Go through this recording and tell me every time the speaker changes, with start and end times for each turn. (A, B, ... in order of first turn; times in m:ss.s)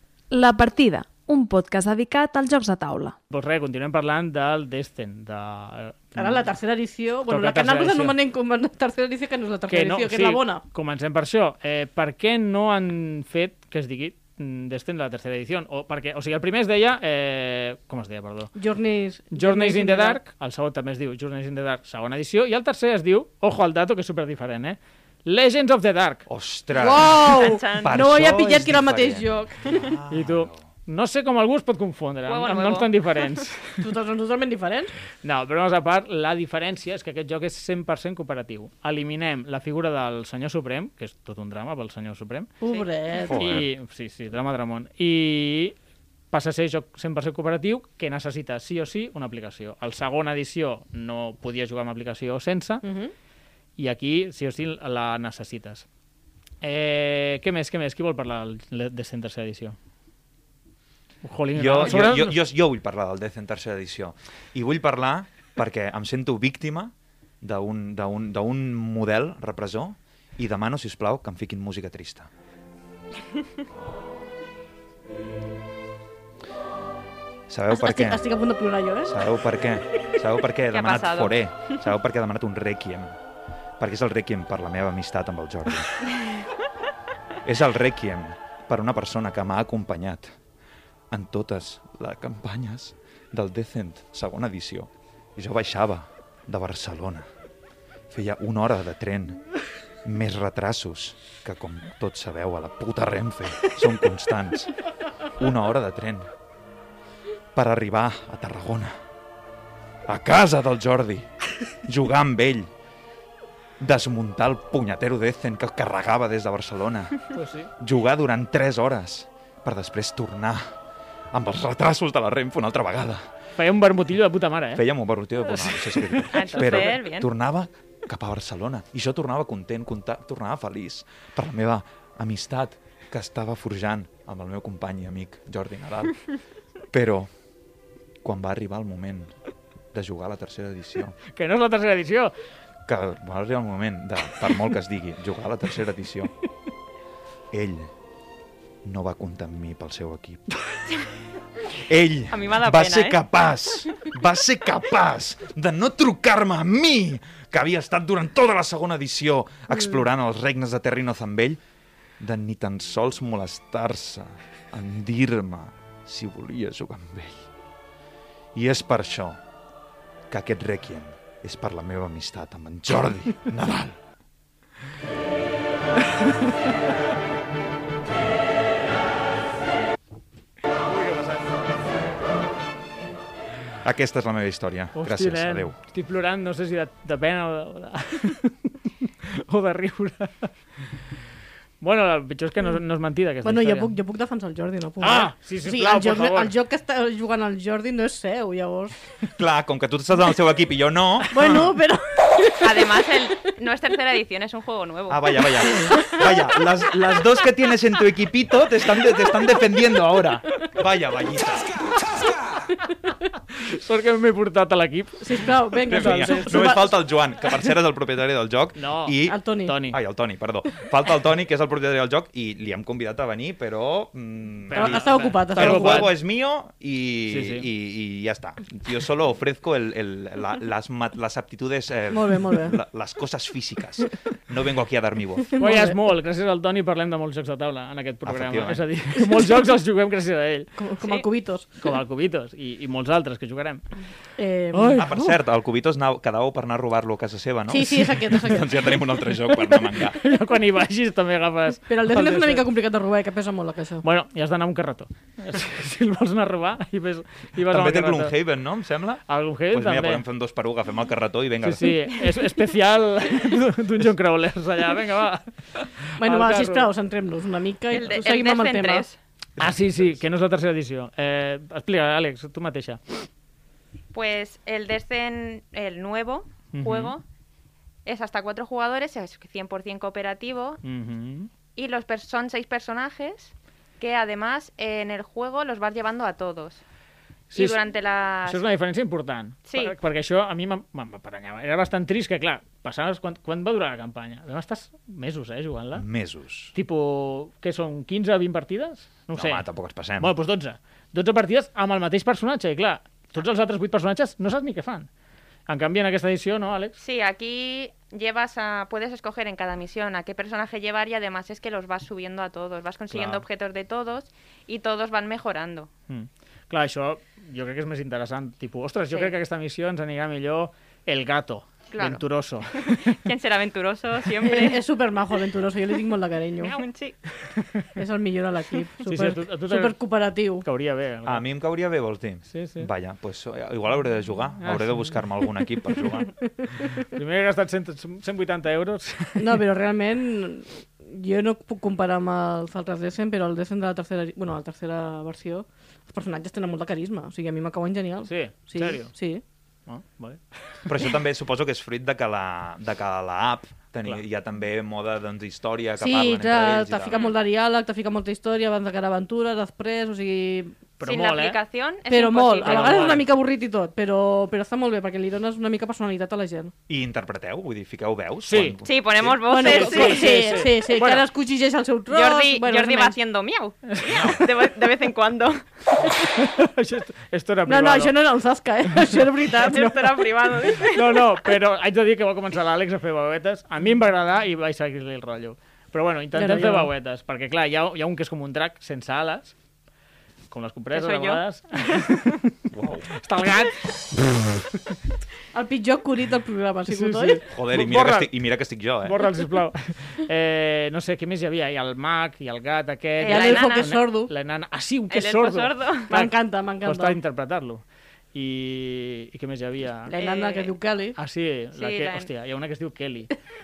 0:00.3-0:03.1 A
0:03.3-0:06.5 B
0:06.2-0:10.6 C
0:07.3-0:08.2 B
0:09.7-0:18.5 B
0:18.6-0:20.2 C
0:19.3-0:26.2 B
0:26.3-0:30.6 D
0:26.8-0:29.9 C
0:27.3-0:28.0 E
0:30.1-0:33.8 B
0:32.2-0:32.9 E
0:33.8-0:34.9 C
0:35.2-0:42.5 B
0:42.6-0:43.5 C
0:43.2-0:43.7 D
0:43.3-0:45.7 B
0:46.3-0:52.8 B
0:52.8-0:53.1 C
0:53.8-0:55.8 B
0:56.6-0:59.8 B
1:01.2-1:02.4 B
1:01.5-1:12.3 D
1:17.5-1:18.2 D
1:17.7-1:19.2 C
1:19.1-1:23.2 D
1:20.7-1:21.4 E
1:23.8-1:26.0 D
1:27.4-1:30.3 D
1:31.1-1:37.2 D
1:38.1-1:39.4 D
1:40.0-1:44.7 D
1:45.4-1:46.3 D
1:47.5-1:49.0 D
1:50.1-1:51.3 D
1:51.8-1:52.7 D
1:53.8-1:57.3 D
1:57.3-1:57.7 B
1:57.8-2:00.7 D
2:01.3-2:03.3 D
2:03.6-2:04.8 B
2:04.7-2:16.2 D
2:05.5-2:07.0 B
2:06.3-2:07.3 E
2:16.9-2:17.3 D
2:18.2-2:19.3 D
2:19.9-2:21.2 D
2:21.3-2:22.3 B
2:22.8-2:26.3 D
2:27.5-2:27.9 D
2:28.8-2:30.4 D
2:31.7-2:41.6 D
2:32.3-2:33.2 E
2:42.2-2:47.5 D
2:48.5-2:49.4 D
2:50.3-2:54.0 D
3:00.9-3:01.6 B
3:03.8-3:05.7 D
3:04.9-3:10.5 B
3:11.8-3:13.9 B
3:13.4-3:18.9 C
3:15.0-3:16.5 B
3:19.4-3:21.7 D
3:21.3-3:22.9 C
3:22.6-3:25.5 E
3:25.1-3:32.3 D
3:33.6-3:36.7 B
3:35.2-3:37.0 C
3:35.9-3:55.5 D
3:38.8-3:40.0 B
3:39.2-3:39.7 C
3:44.7-3:46.1 B
3:44.7-3:46.1 C
3:47.3-3:47.7 B
3:52.1-3:52.8 C
3:55.6-3:55.9 C
3:55.6-4:00.7 B
3:58.2-3:58.9 D
4:00.8-4:01.7 C
4:01.8-4:03.8 B
4:04.4-4:05.0 C
4:04.7-4:05.4 B
4:04.9-4:10.2 D
4:07.7-4:08.9 C
4:09.7-4:12.6 B
4:11.9-4:14.0 C
4:14.0-4:18.3 B
4:17.6-4:22.0 D
4:19.3-4:20.2 B
4:21.6-4:26.9 B
4:26.2-4:29.1 C
4:27.9-4:29.2 E
4:29.6-4:30.2 D
4:29.6-4:33.0 B
4:34.1-4:37.2 E
4:36.7-4:37.1 B
4:38.0-4:40.8 E
4:40.8-4:41.5 B
4:41.7-4:46.8 E
4:47.5-4:47.8 B
4:47.5-4:48.6 E
4:48.4-4:56.0 B
4:49.7-4:49.9 E
4:55.9-4:56.7 D
4:56.7-4:59.6 B
4:59.3-5:00.3 D
5:00.2-5:05.1 B
5:05.7-5:07.0 B
5:07.0-5:15.9 E
5:13.1-5:13.4 B
5:16.1-5:23.2 B
5:21.9-5:24.8 E
5:24.4-5:26.8 C
5:26.6-5:27.2 E
5:28.0-5:30.6 C
5:29.0-5:30.0 B
5:30.6-5:31.4 B
5:31.2-5:36.3 D
5:32.5-5:32.9 B
5:34.6-5:35.2 B
5:37.0-5:39.6 B
5:39.4-5:49.4 C
5:48.3-5:49.1 B
5:49.9-5:50.9 B
5:50.8-5:57.2 D
5:56.0-6:00.8 C
5:57.1-5:57.4 E
6:01.0-6:01.6 B
6:01.0-6:03.2 E
6:02.1-6:06.7 C
6:02.6-6:03.2 B
6:06.9-6:09.5 D
6:08.4-6:08.8 B
6:08.8-6:10.5 E
6:09.4-6:13.2 C
6:09.6-6:11.3 B
6:12.1-6:16.1 E
6:13.9-6:14.4 B
6:14.1-6:14.5 D
6:16.2-6:18.2 B
6:17.6-6:20.2 C
6:19.6-6:21.4 E
6:20.8-6:29.5 B
6:26.4-6:26.9 C
6:30.5-6:32.5 B
6:30.9-6:32.0 E
6:32.7-6:33.1 D
6:33.1-6:34.9 B
6:35.5-6:37.4 C
6:36.9-6:38.3 B
6:37.5-6:39.2 D
6:39.0-6:47.8 B
6:43.2-6:43.9 E
6:43.2-6:44.3 C
6:45.1-6:46.1 E
6:46.1-6:47.2 C
6:48.3-6:50.1 B
6:50.1-6:51.2 C
6:50.1-6:50.7 E
6:51.2-6:53.3 B
6:51.7-6:52.3 E